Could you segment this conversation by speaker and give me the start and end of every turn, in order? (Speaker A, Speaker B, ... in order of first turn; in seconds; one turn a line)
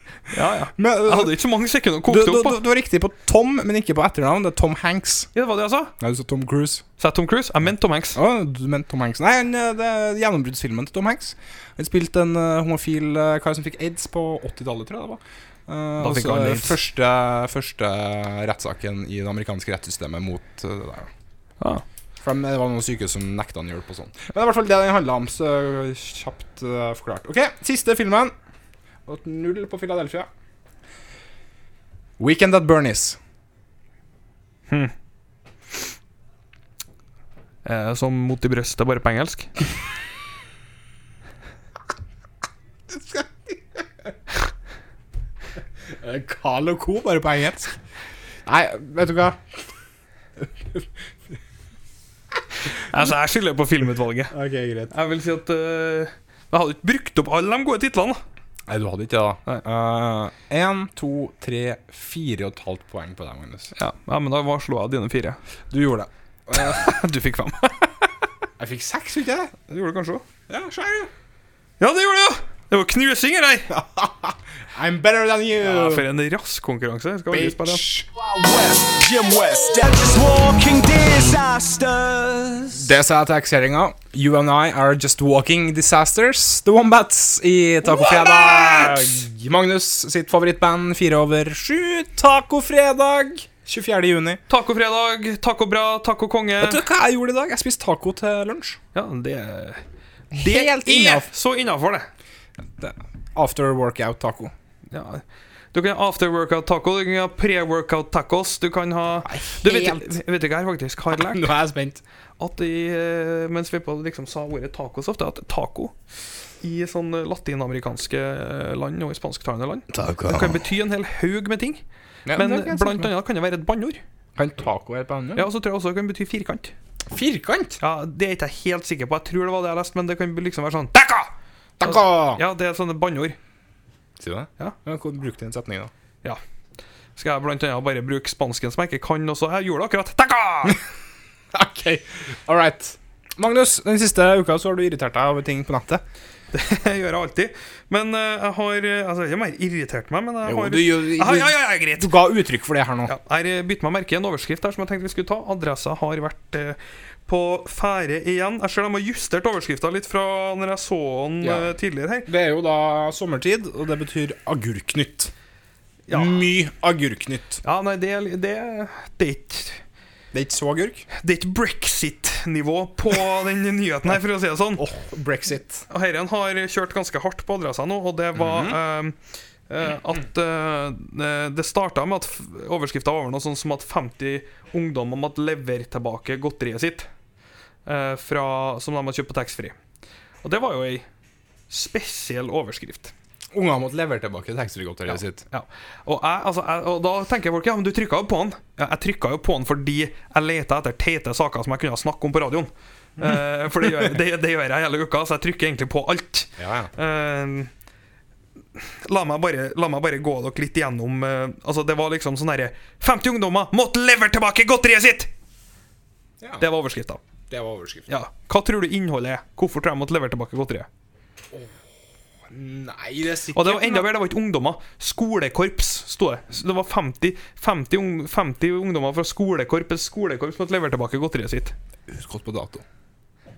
Speaker A: 0.3-2.6
Speaker B: 0.8-1.3
Speaker B: 2.1-5.3
Speaker A: 5.3-5.9
Speaker B: 6.0-6.8
Speaker A: 7.0-8.2
Speaker B: 8.1-21.1
Speaker A: 16.0-16.8
Speaker B: 22.2-28.3
Speaker B: 29.1-30.3
Speaker B: 32.2-33.2
Speaker A: 37.6-39.5
Speaker B: 42.9-43.8
Speaker B: 46.0-47.7
Speaker B: 48.5-49.4
Speaker B: 50.4-50.9
Speaker A: 52.7-54.3
Speaker B: 54.3-54.9
Speaker A: 54.9-58.2
Speaker B: 58.7-63.7
Speaker A: 63.7-65.4
Speaker B: 65.7-66.9
Speaker A: 66.5-67.9
Speaker B: 68.6-69.5
Speaker A: 69.7-70.2
Speaker B: 70.5-71.1
Speaker A: 71.8-73.7
Speaker B: 73.7-76.1
Speaker A: 75.6-77.9
Speaker B: 77.3-78.1
Speaker C: 78.1-82.9
Speaker B: 82.7-94.4
Speaker A: 87.8-89.2
Speaker A: 94.5-96.8
Speaker B: 96.6-98.8
Speaker A: 98.9-102.1
Speaker B: 100.3-101.3
Speaker B: 102.8-104.5
Speaker A: 104.9-111.5
Speaker B: 109.2-110.2
Speaker B: 111.1-112.0
Speaker A: 112.4-115.9
Speaker A: 116.6-121.8
Speaker B: 119.9-120.6
Speaker B: 122.2-123.1
Speaker A: 122.4-124.0
Speaker B: 124.4-125.5
Speaker A: 125.4-126.7
Speaker B: 127.1-127.8
Speaker A: 127.8-131.3
Speaker B: 131.8-132.4
Speaker A: 131.8-133.4
Speaker B: 134.2-135.9
Speaker A: 137.2-140.8
Speaker B: 141.5-146.0
Speaker A: 146.5-152.1
Speaker B: 150.4-153.1
Speaker A: 153.1-162.3
Speaker B: 161.4-161.7
Speaker B: 162.2-165.3
Speaker A: 166.1-166.5
Speaker B: 166.1-167.6
Speaker A: 167.6-169.8
Speaker B: 170.3-171.1
Speaker A: 171.1-174.9
Speaker B: 174.8-175.9
Speaker A: 175.9-179.2
Speaker B: 178.3-178.8
Speaker A: 179.7-187.1
Speaker A: 187.8-189.8
Speaker A: 190.4-191.1
Speaker A: 191.7-193.1
Speaker B: 193.5-195.4
Speaker A: 195.1-207.7
Speaker B: 203.2-204.1
Speaker B: 206.6-206.9
Speaker A: 208.8-215.3
Speaker B: 216.4-216.6
Speaker A: 216.6-217.2
Speaker B: 217.5-218.1
Speaker A: 218.1-220.9
Speaker B: 221.5-221.8
Speaker B: 222.5-224.1
Speaker A: 223.5-231.7
Speaker B: 232.1-232.8